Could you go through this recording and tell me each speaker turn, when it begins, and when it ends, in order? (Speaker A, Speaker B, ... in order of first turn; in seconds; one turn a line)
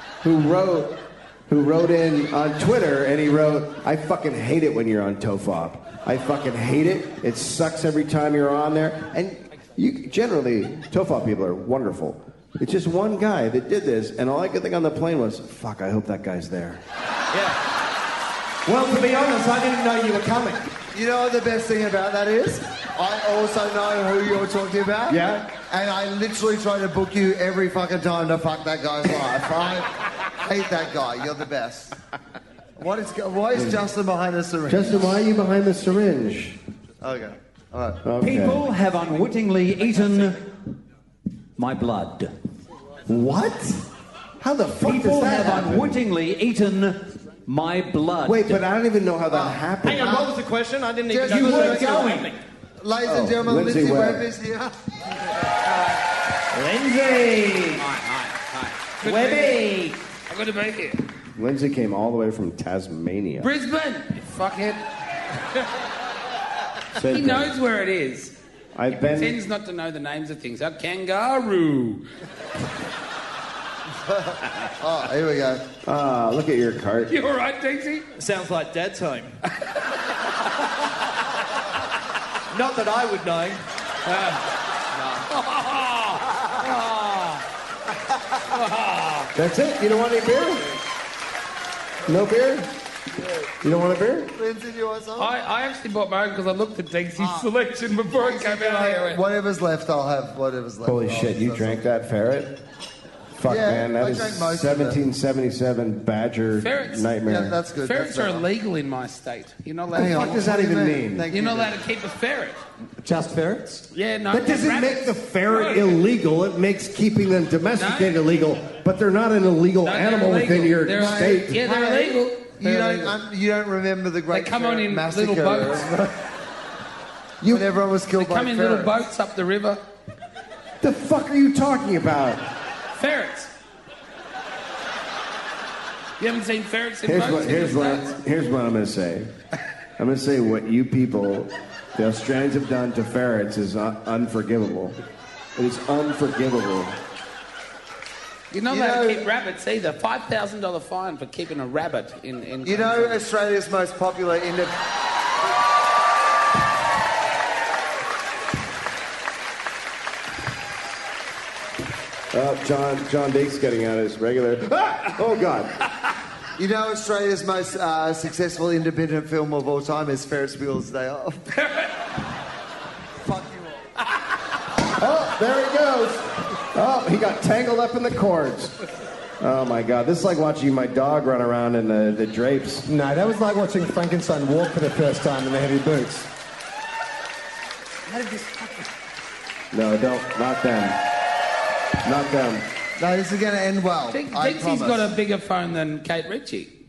Speaker A: 0.2-16.8
Speaker B: 17.3-17.6
Speaker B: 18.6-20.7
Speaker C: 20.9-31.9
Speaker A: 25.1-25.5
Speaker C: 32.8-35.2
Speaker A: 33.5-33.8
Speaker A: 34.7-36.6
Speaker C: 37.0-38.0
Speaker A: 38.0-38.6
Speaker D: 38.2-40.5
Speaker D: 41.6-42.3
Speaker A: 43.1-43.5
Speaker E: 43.1-43.6
Speaker A: 44.4-45.9
Speaker D: 44.8-48.6
Speaker A: 48.2-50.2
Speaker C: 49.3-50.4
Speaker B: 49.8-52.4
Speaker C: 51.1-52.1
Speaker D: 51.3-52.3
Speaker C: 52.8-54.8
Speaker A: 53.0-54.3
Speaker B: 56.5-57.8
Speaker F: 57.8-59.6
Speaker B: 59.0-60.0
Speaker F: 60.3-61.0
Speaker A: 61.4-63.5
Speaker F: 63.4-64.8
Speaker A: 66.9-67.5
Speaker F: 67.1-68.3
Speaker A: 68.7-69.4
Speaker F: 68.9-72.0
Speaker C: 74.1-75.6
Speaker A: 75.8-77.1
Speaker F: 77.1-78.1
Speaker B: 78.2-79.4
Speaker B: 82.5-83.6
Speaker F: 84.0-84.4
Speaker F: 85.0-87.4
Speaker F: 88.5-89.3
Speaker A: 89.3-90.6
Speaker A: 92.1-92.7
Speaker A: 93.6-94.3
Speaker C: 94.3-95.3
Speaker F: 95.2-99.2
Speaker C: 97.2-97.5
Speaker C: 98.0-101.8
Speaker A: 100.8-102.6
Speaker A: 103.4-107.6
Speaker C: 103.4-105.0
Speaker F: 106.5-107.2
Speaker C: 107.2-108.5
Speaker F: 107.8-110.4
Speaker C: 109.9-111.8
Speaker A: 109.9-111.2
Speaker F: 111.3-112.6
Speaker E: 113.0-113.8
Speaker F: 113.9-116.0
Speaker A: 114.3-121.6
Speaker F: 117.8-118.2
Speaker F: 119.8-123.2
Speaker C: 120.9-126.1
Speaker F: 124.3-125.9
Speaker C: 127.5-129.1
Speaker F: 128.1-129.8
Speaker A: 130.8-132.4
Speaker F: 132.9-133.5
Speaker F: 136.2-138.1
Speaker A: 137.0-139.3
Speaker A: 140.0-144.9
Speaker A: 145.6-147.0
Speaker F: 148.5-153.2
Speaker C: 148.7-149.3
Speaker C: 152.6-154.8
Speaker A: 162.3-165.7
Speaker C: 166.6-171.4
Speaker C: 173.2-173.9
Speaker A: 175.0-178.8
Speaker A: 179.4-182.8
Speaker E: 182.8-186.3
Speaker A: 189.7-191.0
Speaker A: 192.0-192.6
Speaker C: 193.0-195.1
Speaker F: 194.1-196.7